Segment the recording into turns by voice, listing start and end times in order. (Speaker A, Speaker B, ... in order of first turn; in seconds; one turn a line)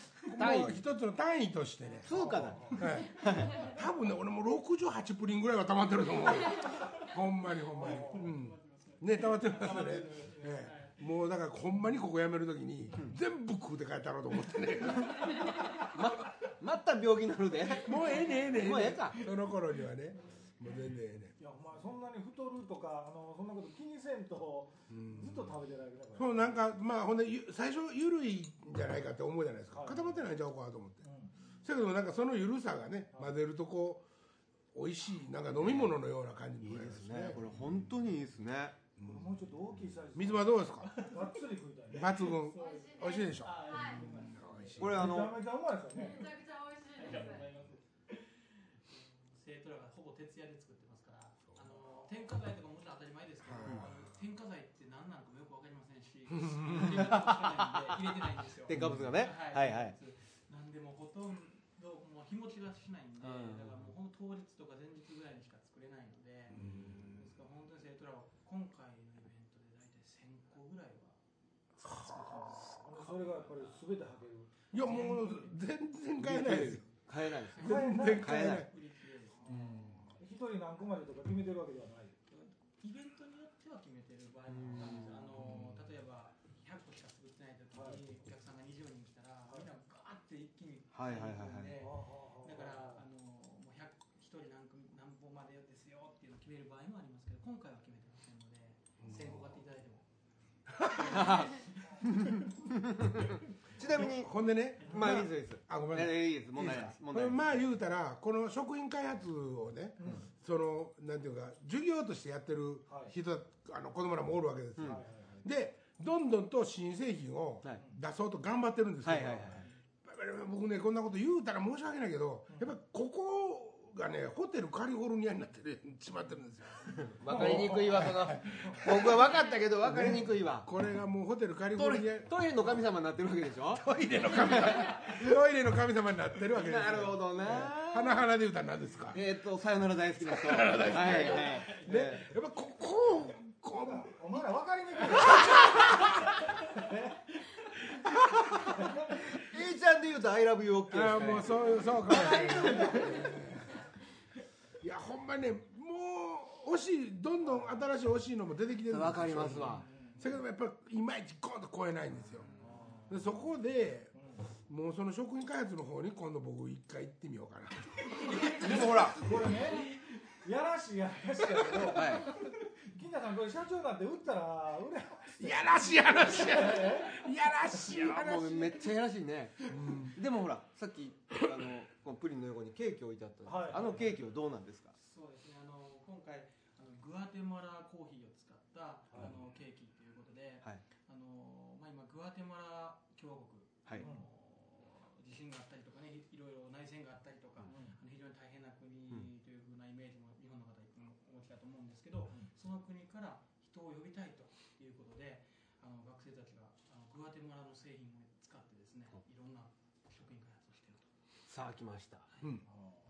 Speaker A: 0.2-15.5
Speaker B: 0.3-0.8
Speaker C: 1.9-3.2
Speaker B: 2.0-3.6
Speaker D: 2.1-2.8
Speaker C: 6.4-7.0
Speaker C: 7.7-11.2
Speaker D: 7.7-8.3
Speaker C: 15.4-15.8
Speaker B: 15.7-19.3
Speaker A: 17.8-21.3
Speaker C: 18.0-18.9
Speaker D: 21.4-26.5
Speaker A: 24.9-25.5
Speaker A: 26.1-31.0
Speaker D: 29.7-30.1
Speaker D: 31.0-31.3
Speaker A: 31.6-34.0
Speaker A: 34.7-37.8
Speaker B: 35.5-36.0
Speaker B: 36.6-38.8
Speaker A: 39.0-39.3
Speaker D: 39.0-42.2
Speaker A: 40.1-40.9
Speaker C: 40.9-41.2
Speaker A: 41.9-45.2
Speaker C: 42.1-44.9
Speaker E: 42.5-44.2
Speaker B: 44.8-45.4
Speaker D: 44.8-46.3
Speaker E: 46.1-47.5
Speaker D: 47.0-47.7
Speaker C: 47.0-48.3
Speaker C: 48.9-71.2
Speaker A: 51.5-51.8
Speaker A: 53.4-54.0
Speaker B: 53.6-53.9
Speaker A: 56.3-57.1
Speaker B: 56.7-60.0
Speaker A: 58.7-59.2
Speaker B: 63.2-63.8
Speaker A: 66.5-67.1
Speaker C: 71.8-73.6
Speaker A: 71.8-72.4
Speaker D: 72.5-74.5
Speaker C: 74.7-75.6
Speaker A: 74.7-76.9
Speaker B: 76.2-78.7
Speaker A: 77.5-78.7
Speaker D: 77.6-78.3
Speaker C: 77.6-79.8
Speaker A: 79.5-80.1
Speaker D: 80.1-82.1
Speaker C: 82.3-100.0
Speaker B: 84.5-85.6
Speaker A: 85.4-85.8
Speaker D: 87.7-88.0
Speaker B: 90.9-91.8
Speaker D: 91.8-93.0
Speaker A: 99.0-99.6
Speaker A: 100.8-101.3
Speaker C: 100.9-102.2
Speaker B: 101.1-107.5
Speaker A: 103.8-129.2
Speaker D: 104.8-105.2
Speaker D: 110.0-110.2
Speaker D: 112.9-113.1
Speaker B: 114.8-115.0
Speaker D: 114.8-115.5
Speaker B: 119.0-119.7
Speaker D: 119.3-119.7
Speaker B: 127.0-130.7
Speaker D: 127.3-129.0
Speaker A: 129.8-132.4
Speaker B: 131.7-135.3
Speaker A: 133.8-139.2
Speaker B: 136.5-138.2
Speaker D: 137.4-137.7
Speaker B: 139.1-142.3
Speaker A: 140.2-144.4
Speaker C: 141.1-141.7
Speaker D: 143.7-145.8
Speaker A: 145.2-146.2
Speaker D: 146.7-147.1
Speaker B: 148.0-153.3
Speaker A: 150.9-153.8
Speaker A: 154.8-162.5
Speaker B: 158.9-159.9
Speaker D: 159.8-160.2
Speaker C: 162.4-163.0
Speaker D: 162.6-163.2
Speaker A: 163.1-169.1
Speaker D: 164.2-164.4
Speaker C: 168.1-170.3
Speaker B: 168.4-169.3
Speaker D: 168.9-172.4
Speaker B: 171.8-172.3
Speaker D: 172.9-177.2
Speaker A: 175.4-178.8
Speaker B: 177.8-184.9
Speaker A: 179.7-180.2
Speaker D: 183.4-184.1
Speaker C: 185.0-211.1
Speaker D: 194.0-194.3
Speaker D: 197.7-198.0
Speaker B: 211.5-212.2
Speaker C: 212.3-212.6
Speaker A: 212.4-212.7
Speaker D: 212.7-213.0